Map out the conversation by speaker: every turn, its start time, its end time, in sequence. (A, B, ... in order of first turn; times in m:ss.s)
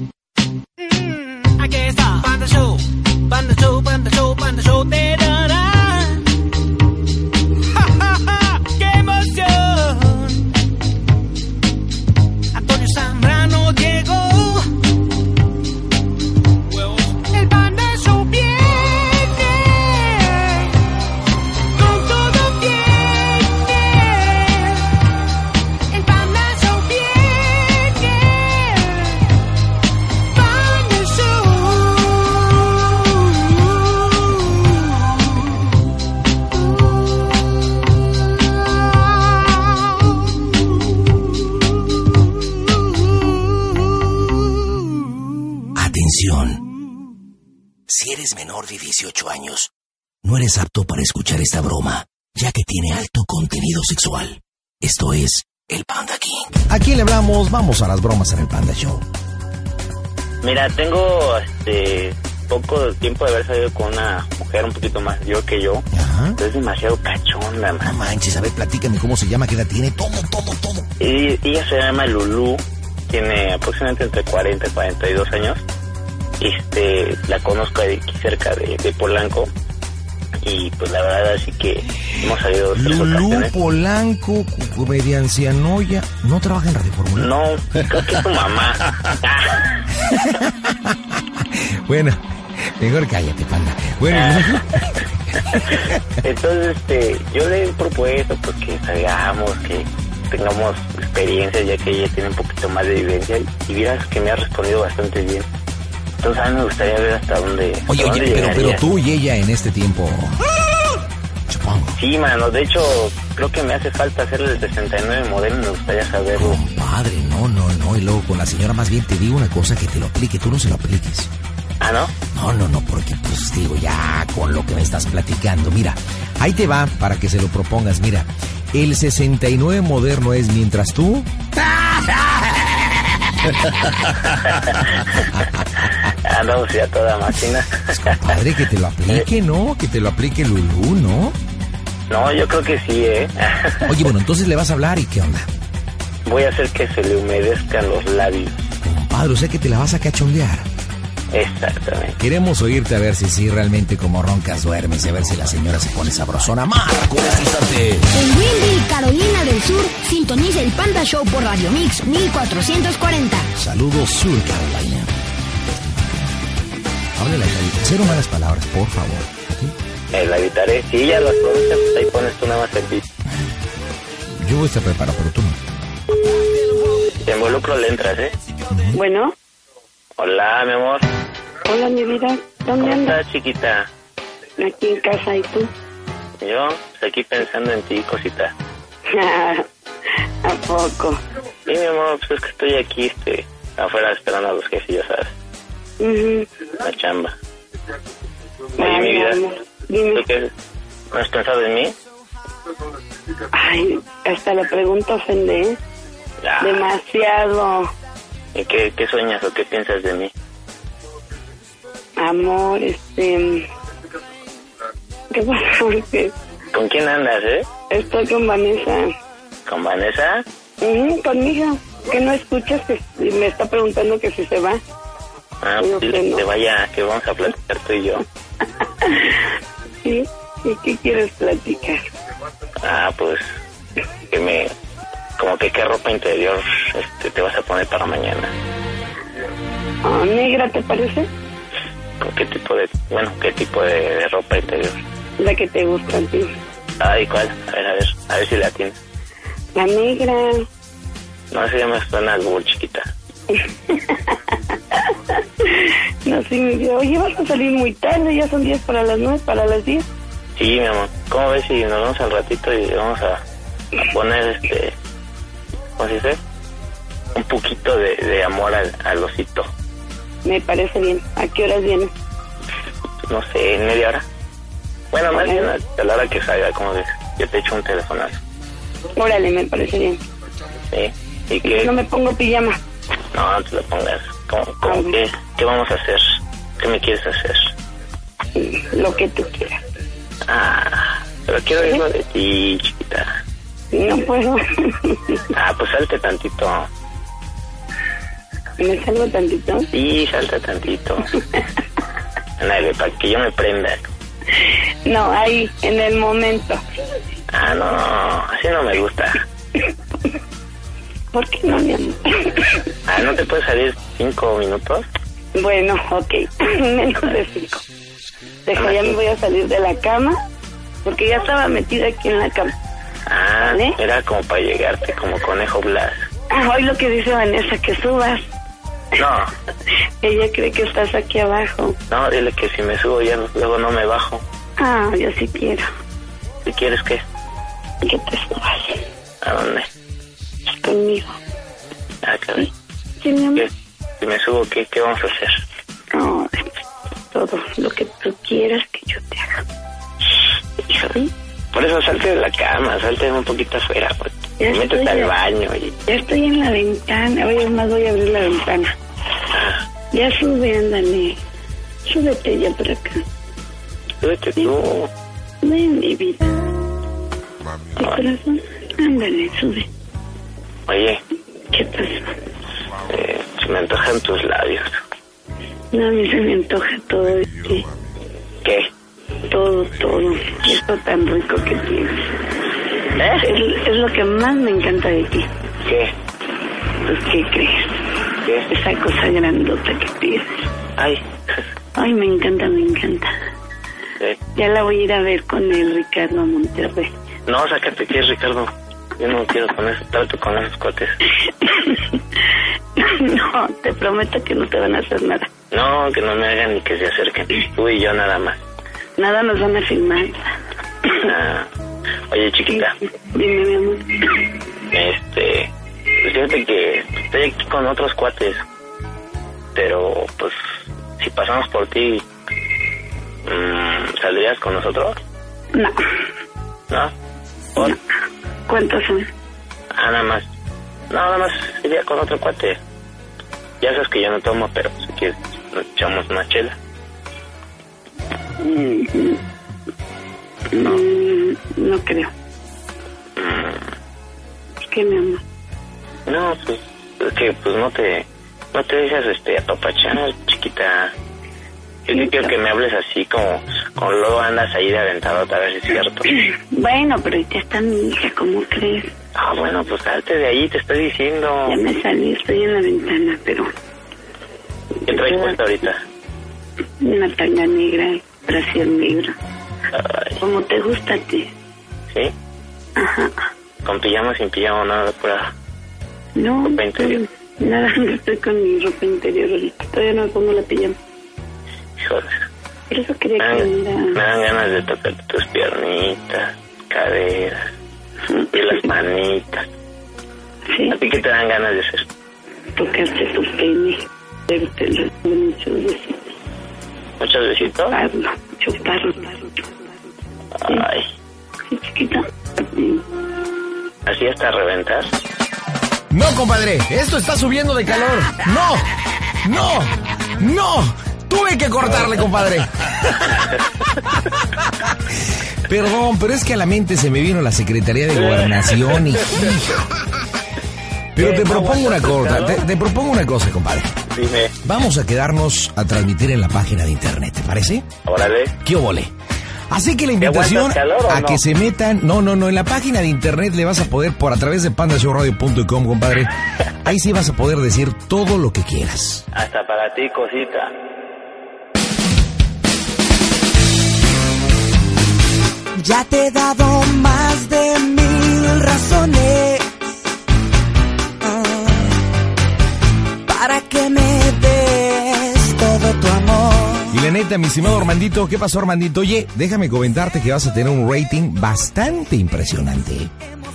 0:00.8-0:06.2 A
0:07.7-0:10.5 A
0:12.5-0:14.7 A
0:16.7-0:20.8 A
0:21.8-0:24.9 A
0:25.9-0:29.2 A
0:30.3-0:34.6 A
0:45.8-0:46.6 B
0:47.9-0:49.7 B
0:50.2-0:59.0 B
1:00.4-1:05.8 C
1:05.9-1:06.4 B
1:06.4-1:07.9 C
1:07.8-1:10.9 B
1:11.0-1:15.6 C
1:16.4-1:19.5 C
1:20.4-1:23.5 C
1:22.7-1:27.3 B
1:27.2-1:29.8 C
1:30.0-1:36.0 B
1:34.1-1:34.8 C
1:35.5-1:45.5 C
1:46.2-1:48.8 C
1:47.9-1:50.4 B
1:51.5-1:52.0 B
1:52.0-1:56.6 C
1:56.3-2:01.3 B
2:01.8-2:02.1 C
2:02.3-2:12.7 B
2:13.4-2:14.3 B
2:14.4-2:15.2 C
2:14.8-2:16.1 B
2:16.2-2:18.2 C
2:17.9-2:21.4 B
2:22.1-2:24.1 C
2:23.8-2:25.5 B
2:26.2-2:28.7 C
2:28.8-2:30.7 B
2:31.3-2:32.2 C
2:32.2-2:38.1 B
2:38.1-2:43.5 D
2:43.6-2:45.1 B
2:45.7-2:46.1 B
2:47.2-2:49.8 B
2:50.1-2:53.0 C
2:54.3-2:55.6 B
2:57.2-2:58.3 C
2:58.7-2:59.0 B
2:58.9-2:59.3 E
3:00.2-3:01.1 C
3:01.7-3:03.2 E
3:02.8-3:03.9 C
3:04.6-3:05.7 E
3:06.4-3:08.5 C
3:09.1-3:09.7 E
3:10.4-3:11.2 E
3:11.7-3:15.3 C
3:16.0-3:16.5 E
3:16.8-3:17.3 C
3:18.8-3:19.4 C
3:18.8-3:20.2 E
3:20.1-3:20.5 C
3:21.1-3:22.0 C
3:23.5-3:25.8 E
3:26.4-3:26.9 C
3:26.6-3:27.9 E
3:28.5-3:30.3 C
3:32.2-3:33.7 E
3:35.3-3:36.3 E
3:36.7-3:37.7 C
3:37.9-3:39.1 E
3:39.7-3:40.4 C
3:40.8-3:44.8 E
3:45.6-3:48.2 C
3:45.8-3:46.4 E
3:49.0-3:49.4 E
3:50.0-3:52.0 E
3:52.8-3:53.4 C
3:54.3-3:54.7 C
3:55.4-3:58.5 C
4:00.0-4:01.3 E
4:02.2-4:05.0 C
4:05.4-4:06.5 E
4:07.0-4:09.0 C
4:09.8-4:10.7 E
4:11.5-4:13.1 C
4:13.5-4:20.1 E
4:20.6-4:23.4 C
4:24.0-4:25.0 C
4:26.0-4:26.4 C
4:27.3-4:29.7 C
4:30.4-4:32.1 E
4:33.2-4:34.2 C
4:35.1-4:38.4 C
4:35.3-4:35.8 E
4:39.2-4:40.2 E
4:40.9-4:41.9 C
4:41.6-4:42.8 E
4:43.3-4:47.7 C
4:44.8-4:45.2 E
4:48.6-4:49.8 E
4:50.5-4:53.4 C
4:53.9-4:55.4 E
4:55.5-4:56.9 C
4:58.8-4:59.9 E
4:59.9-5:01.3 C
5:02.6-5:04.1 C
5:04.6-5:06.8 E
5:07.5-5:09.4 C
5:11.3-5:12.8 E
5:13.1-5:15.1 C
5:15.6-5:17.8 E
5:18.7-5:20.4 E
5:18.8-5:19.2 C
5:21.0-5:22.7 E
5:23.3-5:26.2 C
5:23.6-5:24.0 E
5:26.5-5:28.4 E
5:29.2-5:29.5 C
5:30.2-5:32.0 E
5:32.1-5:34.4 C
5:34.8-5:35.9 E
5:36.6-5:37.2 C
5:38.0-5:39.0 E
5:39.4-5:39.9 C
5:40.8-5:41.4 E
5:42.2-5:42.7 C
5:43.2-5:43.7 E
5:43.6-5:45.6 C
5:46.1-5:46.7 E
5:47.3-5:49.6 E
5:50.9-5:51.3 E
5:51.7-5:56.0 C
5:54.6-5:55.3 E
5:56.1-5:58.9 E
5:59.5-5:59.8 C
6:00.1-6:01.4 E
6:02.1-6:03.2 E
6:04.2-6:05.1 C
6:05.6-6:06.5 E
6:08.0-6:09.9 E
6:10.9-6:11.2 C
6:11.7-6:12.3 E
6:13.1-6:15.0 C
6:15.9-6:17.9 E
6:18.6-6:18.9 C
6:19.5-6:22.4 E
6:23.2-6:23.5 C
6:23.4-6:25.5 E
6:25.8-6:26.1 C
6:27.0-6:28.0 E
6:28.4-6:28.7 C
6:28.7-6:30.7 E
6:31.0-6:31.7 C
6:32.0-6:33.3 E
6:34.6-6:37.1 E
6:37.5-6:41.2 C
6:41.5-6:42.4 E
6:43.0-6:45.5 E
6:45.7-6:48.6 C
6:49.2-6:50.5 E
6:51.1-6:51.7 C
6:52.3-6:53.0 C
6:52.7-6:54.4 E
6:54.9-6:55.7 C
6:56.2-6:58.6 C
6:59.8-7:00.6 C
7:01.2-7:02.2 C
7:03.5-7:05.2 C
7:05.7-7:06.0 E
7:08.7-7:09.3 E
7:09.9-7:10.4 C
7:11.1-7:12.8 C
7:13.8-7:16.8 C
7:18.6-7:19.4 E
7:20.7-7:22.3 E
7:23.4-7:23.9 C
7:24.8-7:25.4 E
7:26.3-7:31.1 C
7:32.1-7:36.4 C
7:32.1-7:32.5 E
7:36.5-7:39.1 E
7:39.4-7:41.8 C
7:41.7-7:43.7 E
7:45.1-7:45.6 E
7:45.1-7:46.0 C
7:47.0-7:49.3 E
7:49.9-7:50.4 C
7:50.4-7:51.5 E
7:53.0-7:53.4 E
7:53.8-7:55.5 C
7:56.4-8:01.0 E
7:56.7-7:57.2 C
8:02.0-8:02.5 C
8:02.9-8:04.2 E
8:03.4-8:07.7 C
8:08.3-8:08.8 E
8:08.5-8:09.7 C
8:10.7-8:11.0 E
8:10.9-8:12.1 C
8:12.8-8:16.3 E
8:17.2-8:18.0 C
8:17.9-8:19.7 E
8:20.6-8:21.1 C
8:21.7-8:23.0 E
8:24.1-8:25.1 C
8:26.1-8:28.9 B
8:29.4-8:39.9 B
8:38.2-8:39.4 C
8:41.2-8:44.0 B
8:41.2-8:42.6 C
8:44.1-8:44.5 C
8:44.6-8:47.9 B
8:48.0-8:48.6 C
8:48.6-8:49.1 B
8:49.7-8:59.2 B
8:50.2-8:51.4 C
8:59.3-9:00.7 C
9:05.8-9:09.6 F
9:11.2-9:12.0 F
9:13.3-9:17.0 F
9:16.9-9:23.1 B